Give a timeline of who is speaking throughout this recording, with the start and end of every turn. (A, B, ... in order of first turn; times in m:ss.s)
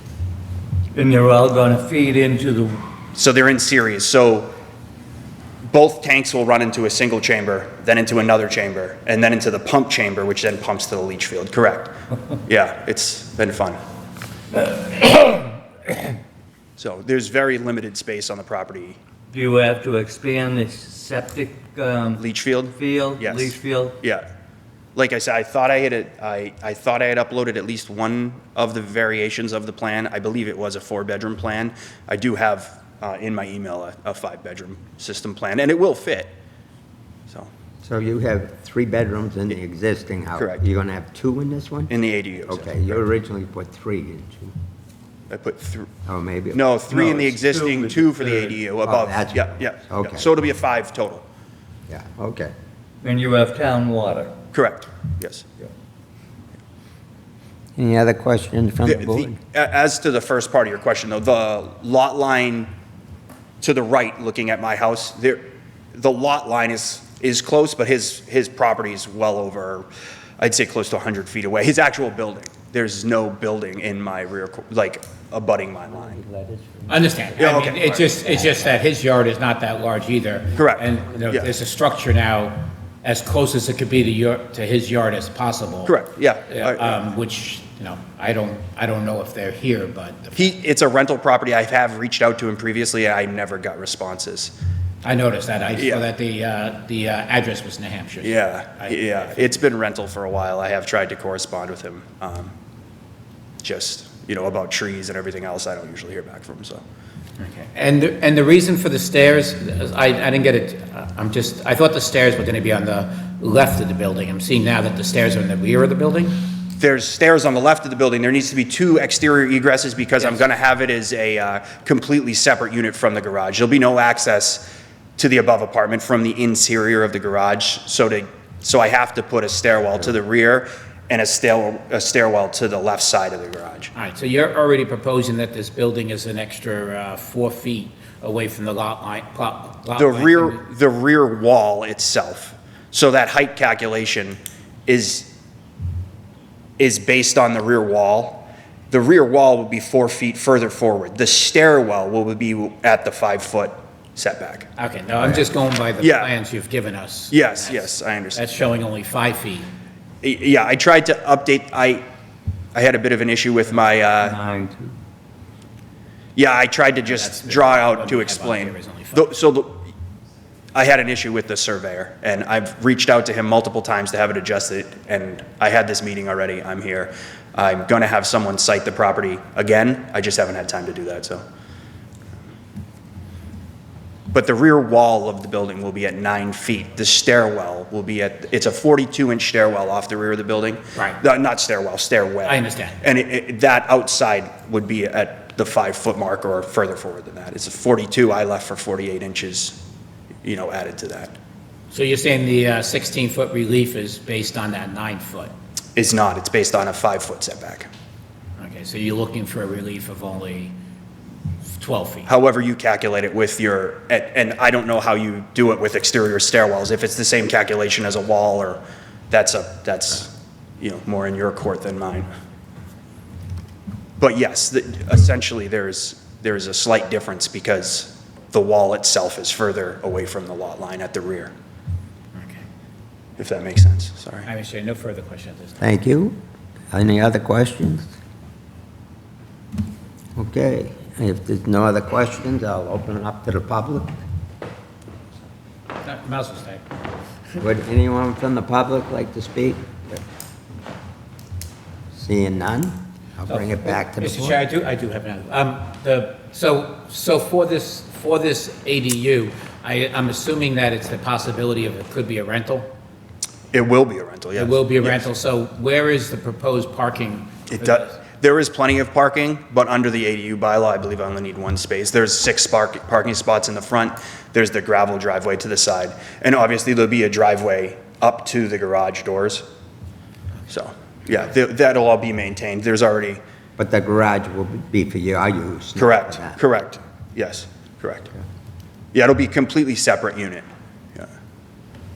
0:00.9-0:02.8 A
0:03.2-0:04.5 B
0:05.7-0:11.9 B
0:12.4-0:13.8 B
0:14.9-0:15.4 A
0:16.8-0:19.0 B
0:19.3-0:22.2 A
0:22.2-0:24.2 B
0:22.7-0:24.0 A
0:25.0-0:36.3 B
0:37.8-0:41.9 C
0:40.4-0:40.6 B
0:41.9-0:43.0 B
0:42.5-0:44.6 C
0:45.3-0:45.9 B
0:46.0-0:46.6 C
0:46.5-0:51.2 B
0:46.9-0:48.4 A
0:48.8-0:50.3 C
0:51.9-0:52.5 C
0:53.0-0:54.3 A
0:54.5-0:55.5 B
0:57.8-0:59.4 C
0:58.9-1:02.7 B
1:03.6-1:09.9 B
1:10.4-1:16.2 B
1:16.1-1:17.0 C
1:16.9-1:26.0 D
1:17.4-1:18.1 B
1:20.6-1:21.5 B
1:25.9-1:27.0 B
1:26.5-1:30.5 D
1:30.3-1:34.5 B
1:35.0-1:39.3 D
1:35.8-1:36.0 B
1:38.2-1:42.5 B
1:43.6-1:46.8 B
1:47.4-1:56.5 D
1:56.7-2:13.9 B
2:13.9-2:20.6 D
2:20.0-2:25.3 B
2:26.8-2:34.7 B
2:34.8-2:39.7 D
2:36.0-2:36.3 B
2:37.3-2:38.4 B
2:40.2-2:42.0 B
2:42.7-2:44.4 B
2:44.2-2:44.9 A
2:46.4-2:49.9 B
2:47.0-2:49.3 D
2:50.7-3:01.4 B
3:04.3-3:19.8 B
3:12.4-3:13.0 D
3:20.4-3:21.3 B
3:21.9-3:25.5 D
3:26.0-3:27.9 B
3:28.6-3:30.7 D
3:31.7-3:32.3 D
3:32.2-3:42.3 B
3:44.2-3:51.5 B
3:52.4-3:52.6 D
3:53.4-3:54.5 B
3:54.4-3:55.8 D
3:55.8-3:56.4 C
3:56.9-3:58.1 C
4:00.4-4:04.2 C
4:06.0-4:06.8 D
4:07.6-4:10.2 C
4:12.1-4:14.6 C
4:13.5-4:22.9 D
4:23.7-4:25.2 B
4:24.6-4:28.2 D
4:27.7-4:39.6 B
4:40.7-4:43.4 B
4:43.8-4:46.6 C
4:46.0-4:48.3 B
4:49.1-4:50.6 B